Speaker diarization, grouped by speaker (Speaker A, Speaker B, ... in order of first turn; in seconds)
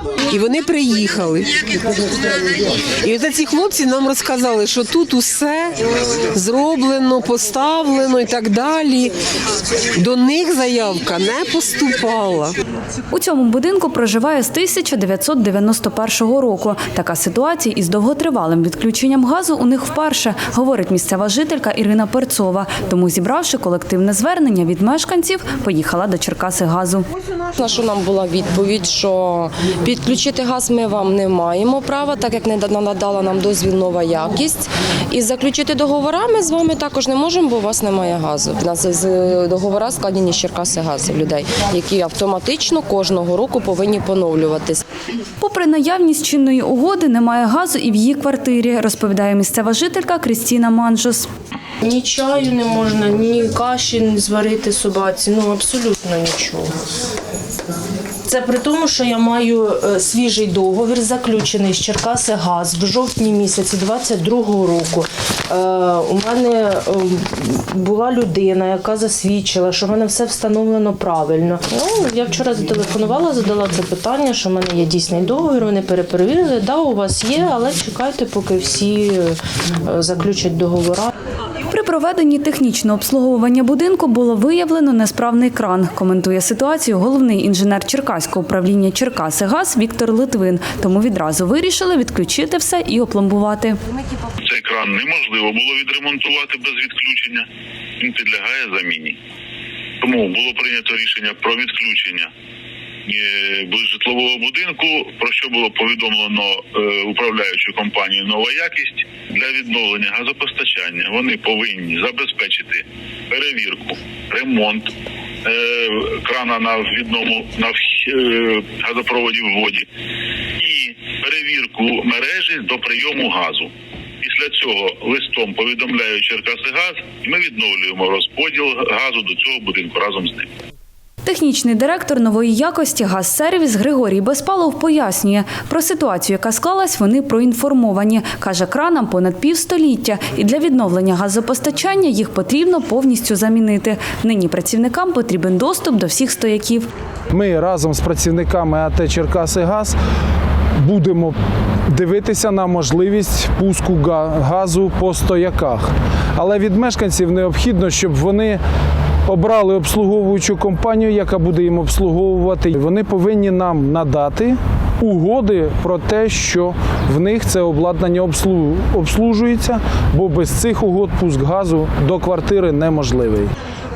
Speaker A: 0.3-1.6, 3.0-5.8, 6.3-9.1, 9.9-12.5
Speaker B: 13.1-27.1, 45.4-51.3, 81.7-93.8, 131.2-146.9
Speaker C: 27.7-34.6, 35.1-44.3
Speaker D: 51.8-56.7, 58.2-81.1
Speaker E: 94.4-97.4, 98.0-99.2, 100.0-102.3, 103.1-114.9, 115.4-119.8, 120.6-123.7, 124.2-130.5
Speaker F: 147.3-150.0, 150.8-151.3, 151.9-158.6, 159.2-173.5